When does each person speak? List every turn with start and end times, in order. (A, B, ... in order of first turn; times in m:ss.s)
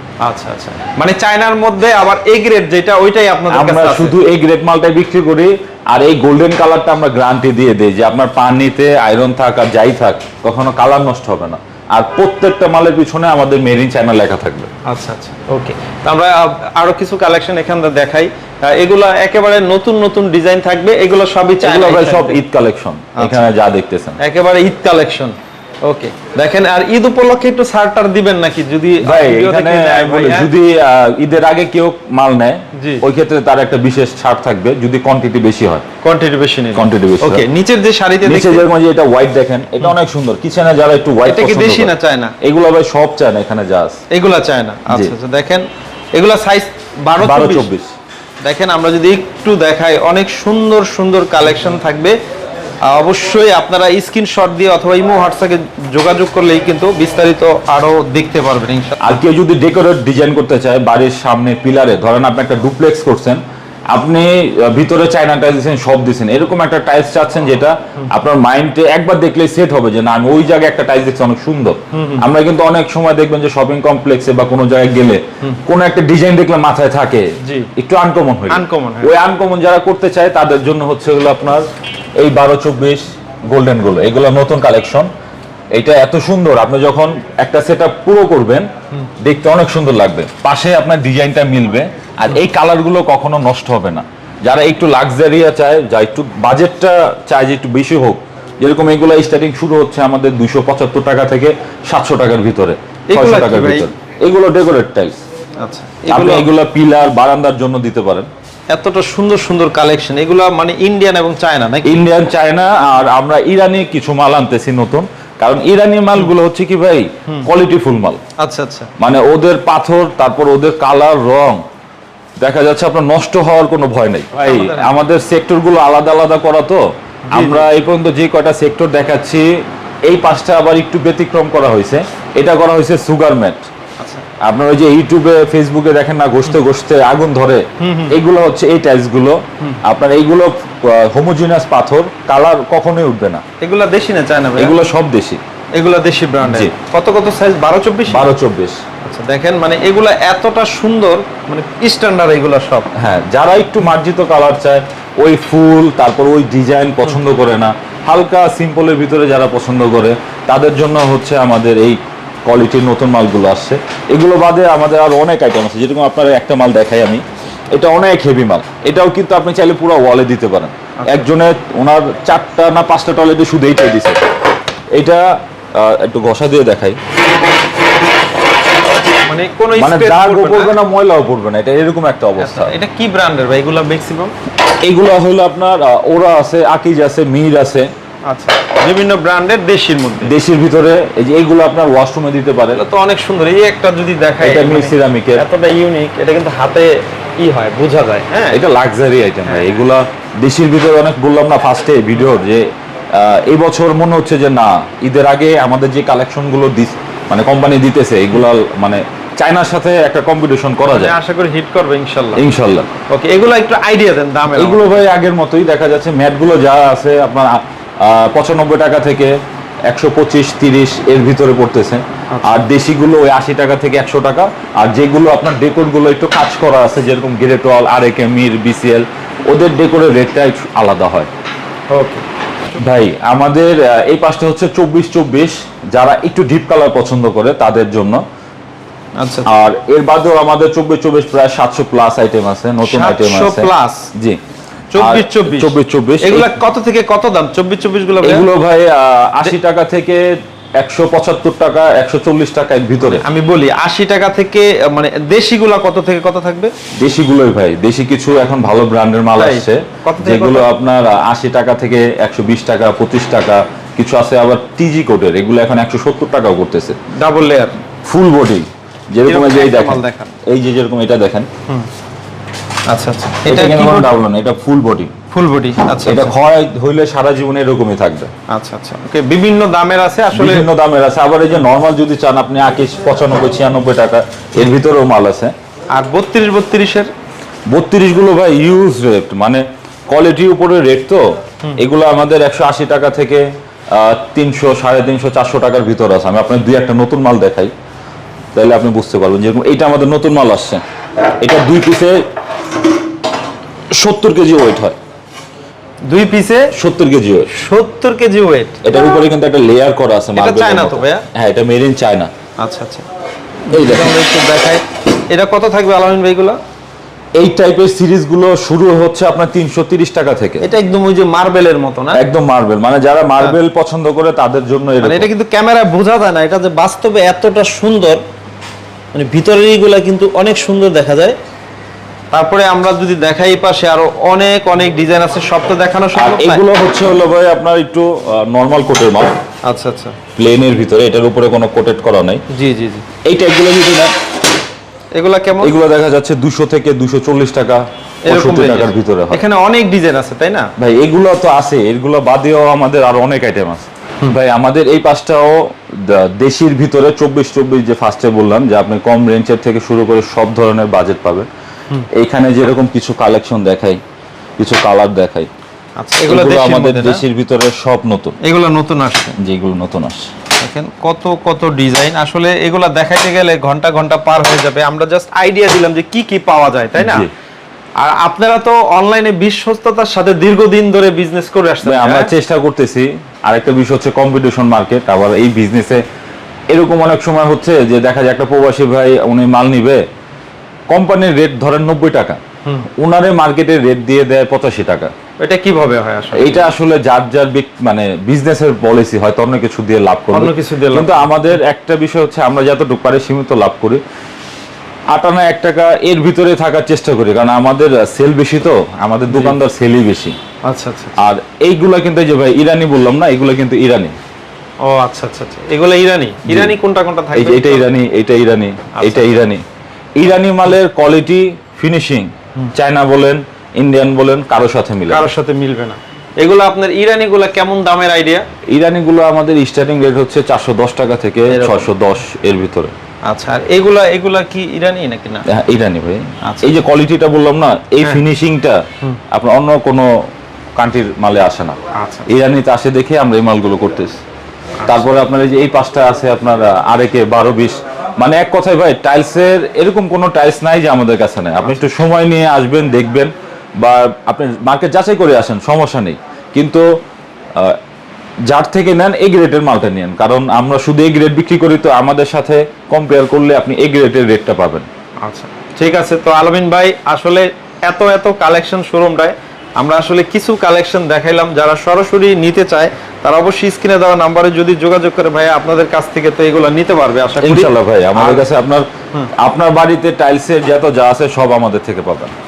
0:00.2-0:04.2 A
0:03.5-0:14.7 B
0:14.8-0:22.4 A
0:21.6-0:24.2 B
0:23.2-0:23.5 A
0:24.2-0:30.5 A
0:29.0-0:35.8 B
0:32.7-0:33.0 A
0:36.0-0:38.7 A
0:36.8-0:37.4 B
0:38.2-0:44.0 B
0:41.2-0:42.3 A
0:44.1-0:47.7 A
0:47.2-0:47.9 B
0:48.4-0:52.2 A
0:52.8-0:59.0 A
0:59.0-1:03.4 B
1:03.9-1:21.6 B
1:11.9-1:12.2 A
1:17.4-1:17.7 A
1:18.5-1:19.1 A
1:22.2-1:25.1 B
1:25.7-1:28.7 B
1:29.2-1:45.2 B
1:43.1-1:43.9 A
1:45.6-1:46.5 A
1:46.1-1:48.3 B
1:48.7-1:52.0 A
1:51.8-1:58.2 B
1:58.4-1:58.9 A
1:59.0-2:01.6 B
2:02.4-2:09.5 B
2:04.3-2:05.0 A
2:07.3-2:07.7 A
2:10.1-2:13.7 B
2:14.0-2:14.2 A
2:14.4-2:23.4 B
2:17.8-2:18.2 A
2:23.6-2:24.8 A
2:24.6-2:25.4 B
2:25.7-2:28.3 A
2:26.4-2:26.7 B
2:28.1-2:28.8 B
2:29.0-2:32.9 A
2:33.0-2:54.2 B
2:51.0-2:51.3 A
2:54.9-2:57.0 B
2:59.2-3:00.7 A
2:59.8-3:02.8 B
3:02.4-3:04.3 A
3:04.8-3:07.9 B
3:08.3-3:10.3 A
3:10.2-3:12.8 B
3:12.7-3:18.6 A
3:14.4-3:15.4 B
3:18.5-3:31.1 B
3:19.4-3:19.8 A
3:30.8-3:32.4 A
3:32.4-3:32.9 B
3:33.1-3:35.1 A
3:34.5-3:39.3 B
3:39.9-3:51.3 B
3:42.3-3:42.7 A
3:51.9-3:52.2 A
3:52.7-3:58.2 B
3:59.2-3:59.5 A
3:59.4-4:04.4 B
4:02.8-4:04.1 A
4:04.9-4:08.5 A
4:05.0-4:06.5 B
4:08.2-4:13.2 B
4:13.0-4:16.7 A
4:17.0-4:27.0 B
4:19.4-4:20.7 A
4:27.1-4:27.8 A
4:28.0-4:31.5 B
4:29.2-4:30.4 A
4:32.9-4:34.1 A
4:33.5-4:35.1 B
4:35.3-4:36.4 A
4:36.0-4:38.3 B
4:38.5-4:40.7 A
4:40.3-4:45.5 B
4:45.9-4:47.1 A
4:47.7-4:57.7 B
4:58.5-5:00.8 B
5:01.4-5:02.2 B
5:03.9-5:05.0 B
5:06.1-5:06.7 A
5:06.7-5:07.5 B
5:07.5-5:08.8 A
5:08.8-5:12.3 B
5:10.3-5:11.2 A
5:12.6-5:13.1 A
5:13.7-5:16.6 A
5:13.7-5:14.2 B
5:17.4-5:20.7 B
5:20.6-5:22.2 A
5:22.1-5:25.3 B
5:25.0-5:28.2 A
5:29.1-5:31.4 A
5:32.3-5:36.6 A
5:36.1-5:39.3 B
5:39.6-5:40.2 A
5:40.4-5:42.4 B
5:42.5-5:43.1 A
5:43.2-5:44.1 B
5:45.1-5:45.7 A
5:45.6-5:49.4 B
5:48.2-5:50.7 A
5:50.8-6:01.5 B
6:02.1-6:04.0 B
6:04.6-6:05.5 B
6:06.0-6:07.2 A
6:06.3-6:08.4 B
6:08.4-6:09.4 A
6:09.4-6:10.3 B
6:10.6-6:17.3 A
6:17.0-6:17.3 B
6:18.0-6:22.3 A
6:21.8-6:26.0 B
6:26.7-6:30.0 B
6:30.9-6:32.4 B
6:33.0-6:35.1 B
6:35.4-6:36.7 A
6:36.3-6:44.0 B
6:40.3-6:41.3 A
6:45.1-6:50.4 B
6:49.3-6:49.6 A
6:50.6-6:51.2 A
6:51.2-6:54.1 B
6:54.8-6:57.9 A
6:56.4-6:56.8 B
6:57.3-6:59.6 B
6:59.0-6:59.3 A
7:00.2-7:05.3 B
7:05.1-7:08.5 A
7:08.7-7:12.9 B
7:11.5-7:11.9 A
7:13.2-7:15.5 A
7:15.5-7:20.1 B
7:16.4-7:16.7 A
7:20.8-7:24.2 B
7:21.9-7:22.3 A
7:24.8-7:25.2 A
7:24.9-7:36.9 B
7:38.4-7:44.9 B
7:45.2-7:58.5 A
7:57.4-8:02.3 B